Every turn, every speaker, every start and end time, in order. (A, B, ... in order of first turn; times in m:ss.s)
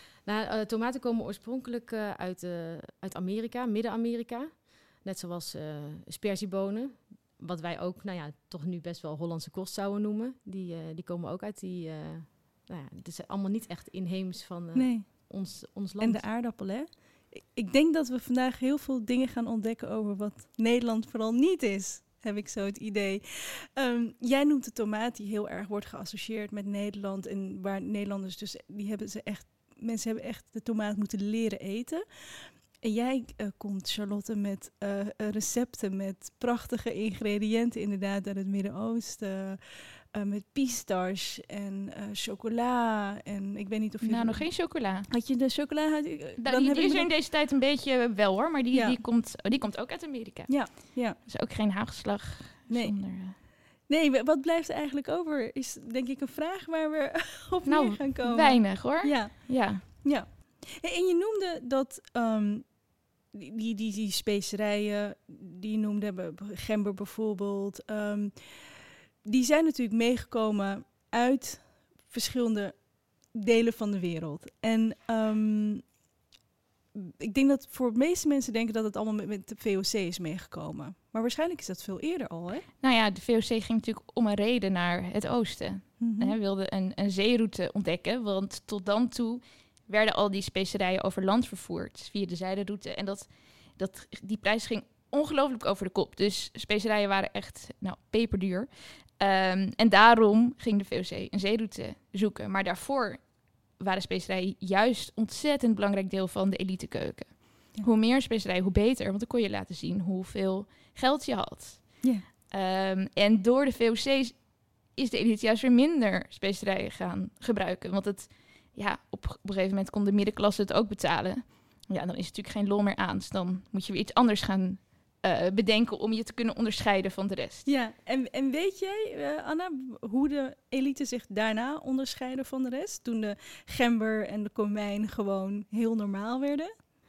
0:00.2-0:16.3 A
0:14.8-0:47.1 B
0:44.0-0:45.1 C
0:46.4-0:53.4 C
0:48.7-0:49.0 B
0:50.5-0:51.2 B
0:52.7-1:15.9 B
0:57.6-0:59.8 C
1:17.0-1:22.7 B
1:22.8-2:07.7 C
1:26.0-1:26.4 B
2:07.7-2:16.7 B